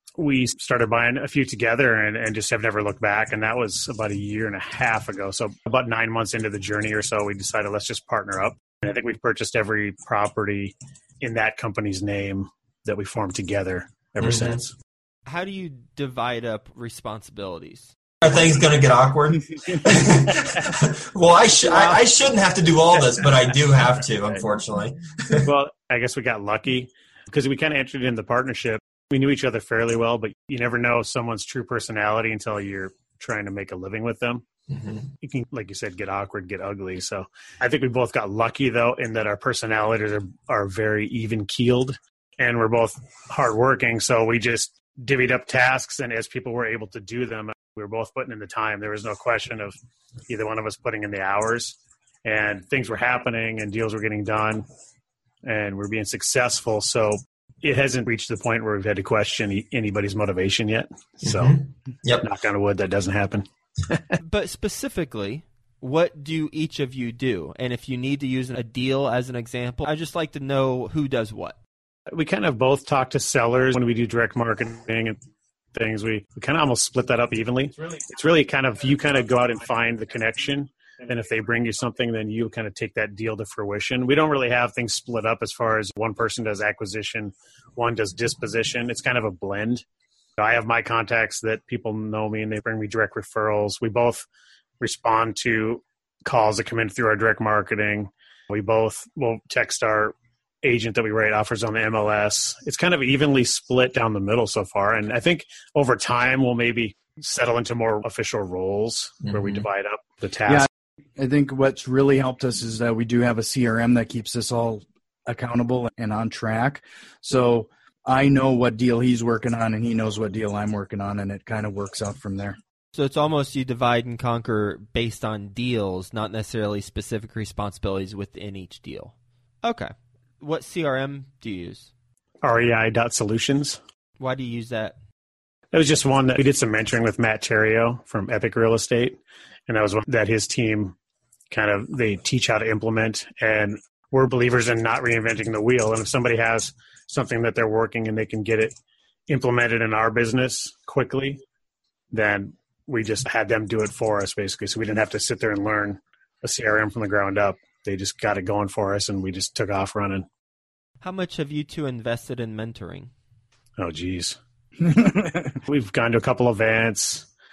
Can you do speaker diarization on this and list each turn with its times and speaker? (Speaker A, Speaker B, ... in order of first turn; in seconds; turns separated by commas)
Speaker A: 0.2-14.7, Speaker B: 14.2-14.6, Speaker C: 15.2-17.9, Speaker B: 18.2-25.5, Speaker A: 25.4-34.4, Speaker B: 34.7-35.1, Speaker A: 35.2-49.7, Speaker A: 50.3-54.6, Speaker A: 55.4-61.6, Speaker B: 61.2-62.3, Speaker A: 62.2-64.2, Speaker C: 64.2-71.6, Speaker A: 72.1-75.2, Speaker A: 75.7-89.8, Speaker A: 90.4-94.3, Speaker A: 94.8-110.7, Speaker B: 109.2-109.6, Speaker D: 110.5-122.6, Speaker C: 122.9-129.1, Speaker C: 129.6-131.9, Speaker A: 132.4-133.8, Speaker C: 134.2-135.0, Speaker A: 135.7-140.9, Speaker A: 141.5-148.7, Speaker A: 149.3-151.4, Speaker A: 152.1-160.3, Speaker C: 161.0-163.1, Speaker A: 163.8-164.4, Speaker D: 164.8-165.6, Speaker A: 165.7-167.3